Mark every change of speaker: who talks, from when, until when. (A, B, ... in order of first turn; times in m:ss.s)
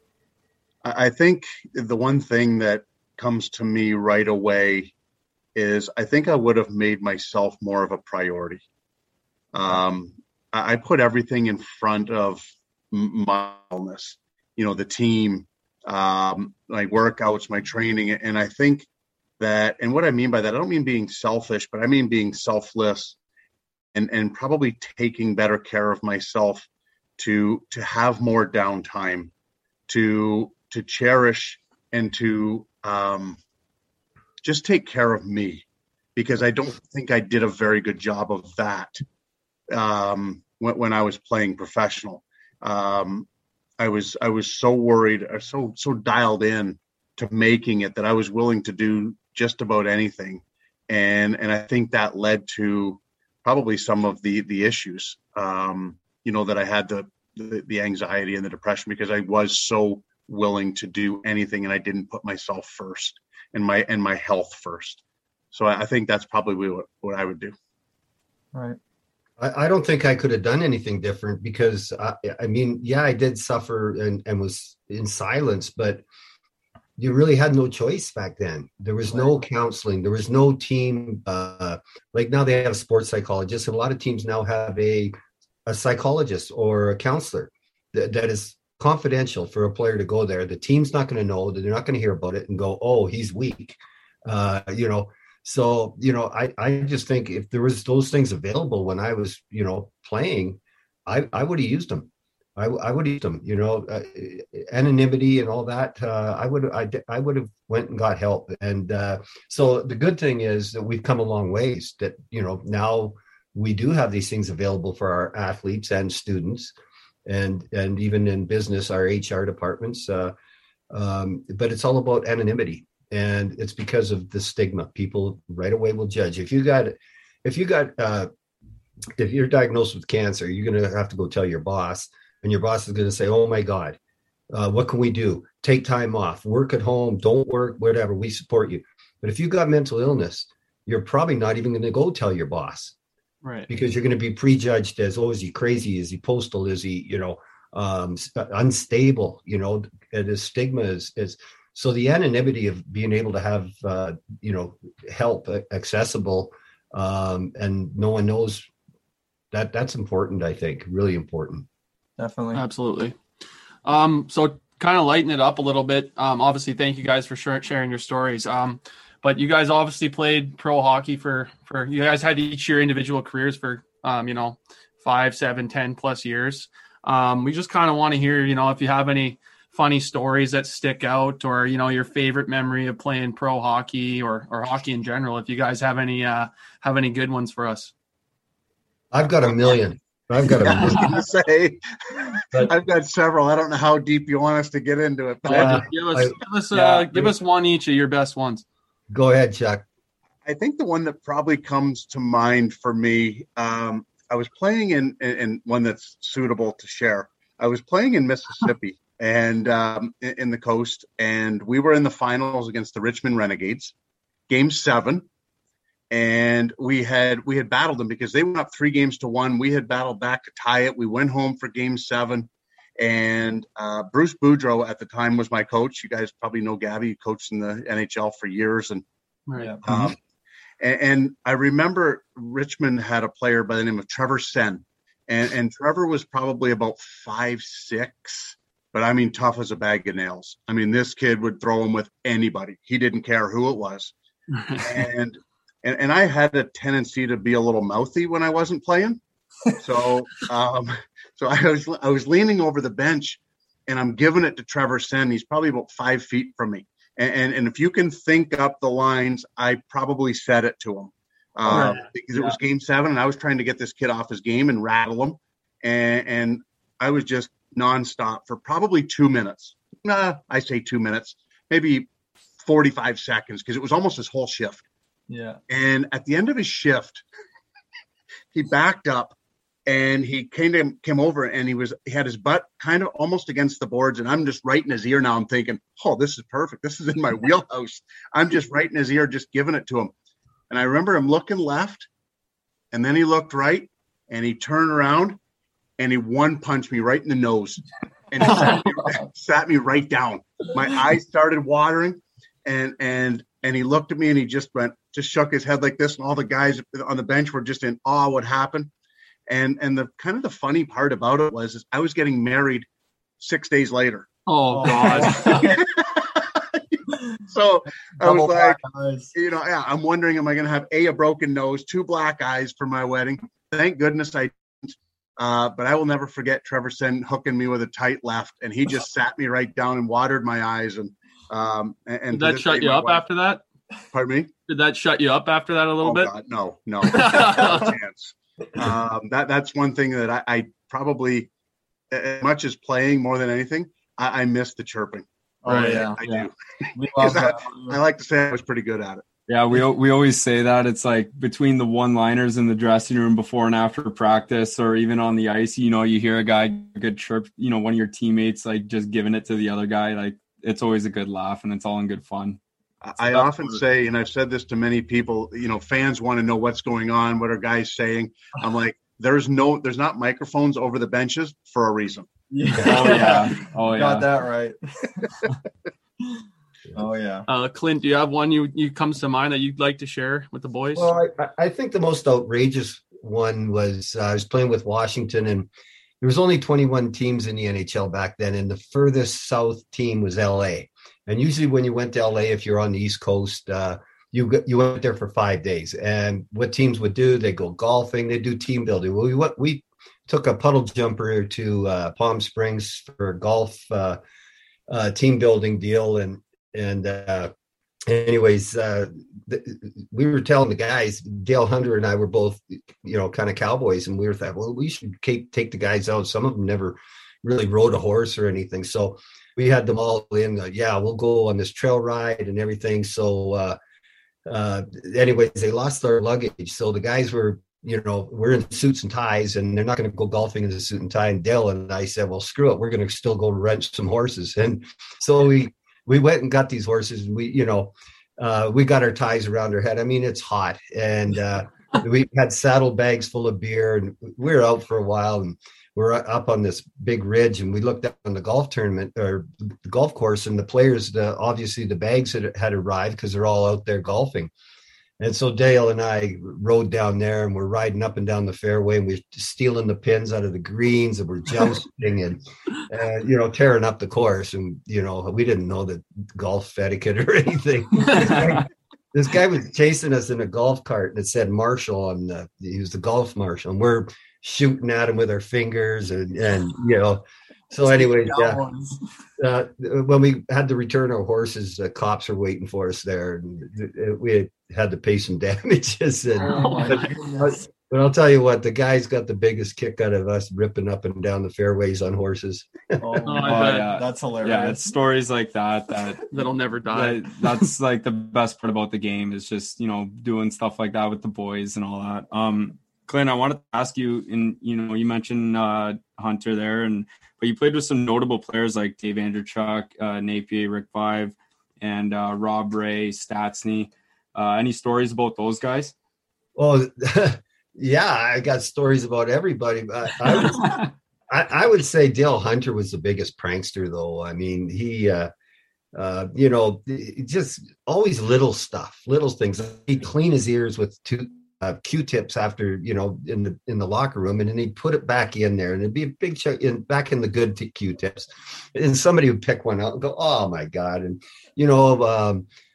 0:00.8-0:04.9 A
0:05.6-0:08.6 A
0:09.5-0:18.9 A
0:19.4-0:23.2 A
0:23.9-0:26.7 A
0:27.2-0:29.3 A
0:29.9-0:33.4 A
0:34.4-0:35.6 A
0:36.2-0:39.0 A
0:39.7-0:43.3 A
0:43.8-1:05.0 A
1:05.5-1:07.6 A
1:08.5-1:08.8 B
1:09.4-1:16.0 C
1:17.0-1:25.1 C
1:25.7-1:56.7 C
1:57.3-2:00.3 C
2:00.9-2:08.3 C
2:09.2-2:14.0 C
2:14.5-2:22.9 C
2:23.4-2:23.7 D
2:23.7-2:38.7 C
2:39.5-2:41.7 C
2:42.2-2:42.6 B
2:42.5-2:43.2 D
2:43.8-3:07.9 D
3:09.1-3:11.3 C
3:10.6-3:15.8 A
3:15.5-3:17.3 C
3:15.5-3:18.6 D
3:19.1-3:19.8 C
3:20.4-3:33.9 A
3:34.5-3:35.3 A
3:36.1-3:49.0 A
3:49.5-3:50.1 D
3:49.8-3:50.2 A
3:50.8-4:04.1 A
4:04.5-4:05.0 D
4:04.8-4:09.2 A
4:09.8-4:32.1 A
4:21.7-4:22.0 D
4:32.6-4:34.8 A
4:35.3-4:35.6 B
4:35.7-4:37.2 A
4:38.5-4:50.1 A
4:50.7-4:52.1 A
4:52.9-4:55.4 A
4:56.0-5:08.9 A
5:09.5-5:12.9 A
5:13.4-5:14.3 A
5:14.5-5:15.8 D
5:14.7-5:15.9 B
5:14.8-5:17.0 A
5:17.5-5:18.8 A
5:18.2-5:19.3 B
5:19.3-5:33.2 A
5:32.3-5:33.6 D
5:34.1-5:34.5 A
5:34.7-5:36.3 D
5:36.0-5:41.5 A
5:37.0-5:37.9 D
5:42.1-5:49.2 A
5:45.6-5:48.0 B
5:49.5-6:02.6 E
6:03.0-6:12.3 A
6:03.2-6:03.8 E
6:12.5-6:15.5 B
6:12.8-6:14.3 E
6:16.9-6:17.5 B
6:17.5-6:21.1 D
6:21.0-6:25.7 C
6:26.2-6:44.2 C
6:44.9-6:47.5 C
6:48.1-7:03.8 C
7:04.5-7:34.5 C
7:35.2-7:58.6 C
7:57.8-7:59.0 B
7:59.4-8:13.0 C
8:06.4-8:07.6 B
8:06.4-8:07.1 D
8:13.0-8:14.9 B
8:13.2-8:14.0 D
8:13.4-8:16.4 E
8:16.3-8:17.6 D
8:16.9-8:35.9 E
8:36.6-8:45.3 C
8:45.9-9:02.5 C